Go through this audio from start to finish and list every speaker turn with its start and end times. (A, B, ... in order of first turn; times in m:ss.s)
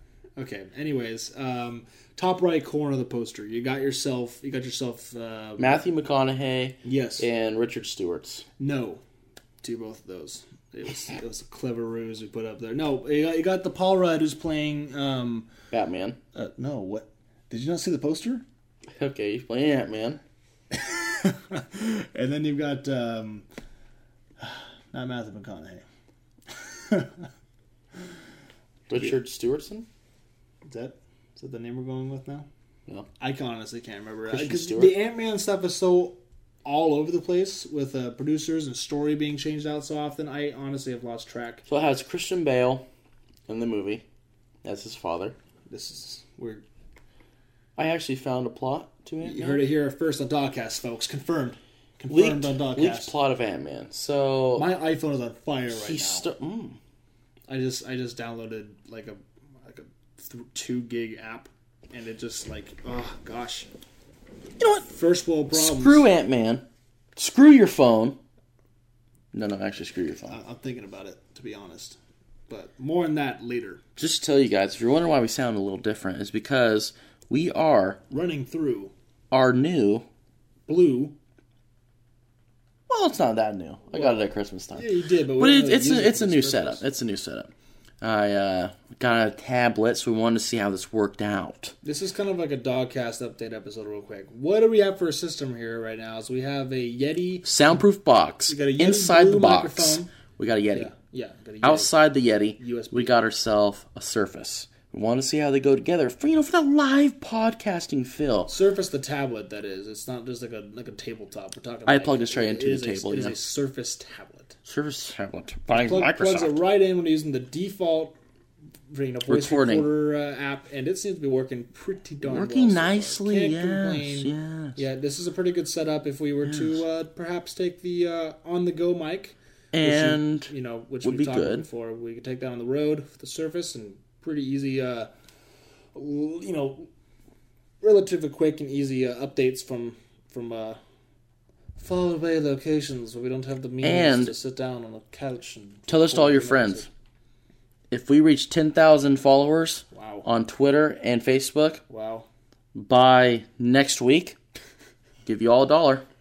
0:00.4-0:05.8 A
0:05.6-0:08.4 B
0:06.8-0:07.3 A
0:08.6-0:09.0 A
0:09.6-0:15.5 A
0:15.7-0:16.2 B
0:16.3-0:18.4 A
0:19.0-0:20.2 B
0:20.7-0:23.4 A
0:24.4-0:25.8 A
0:26.5-0:27.3 A
0:28.9-0:29.9 B
0:30.6-0:32.4 A
0:33.2-0:41.6 A
0:34.3-0:34.9 B
0:41.6-0:42.8 B
0:43.5-0:44.0 B
0:44.6-0:45.4 B
0:45.7-0:46.6 A
0:47.8-0:49.6 B
0:49.2-0:53.1 A
0:52.1-0:54.7 B
0:54.5-0:56.3 A
0:55.7-0:56.8 B
0:57.5-1:03.7 A
1:04.6-1:04.9 B
1:04.8-1:06.1 A
1:05.5-1:08.2 B
1:09.3-1:10.4 B
1:10.3-1:12.0 A
1:12.5-1:13.8 A
1:14.0-1:18.0 B
1:18.1-1:18.9 A
1:19.3-1:20.0 B
1:20.7-1:21.1 A
1:22.9-1:27.5 B
1:23.9-1:26.9 A
1:28.0-1:31.8 B
1:31.8-1:37.5 A
1:37.4-1:40.9 B
1:38.5-1:40.1 A
1:40.7-1:42.0 A
1:41.6-1:48.5 B
1:42.6-1:43.2 A
1:48.5-1:54.6 A
1:51.9-1:53.4 B
1:54.6-1:56.6 B
1:55.8-1:58.1 A
1:58.9-2:15.1 A
1:59.3-1:59.9 B
2:02.2-2:04.8 B
2:06.4-2:06.7 B
2:09.7-2:10.5 B
2:11.0-2:11.6 B
2:15.9-2:16.9 A
2:17.8-2:20.8 A
2:21.8-2:26.9 A
2:23.8-2:24.3 B
2:25.9-2:26.9 B
2:27.9-2:31.8 B
2:29.9-2:30.3 A
2:31.9-2:32.3 A
2:32.7-2:34.4 B
2:35.2-2:36.0 B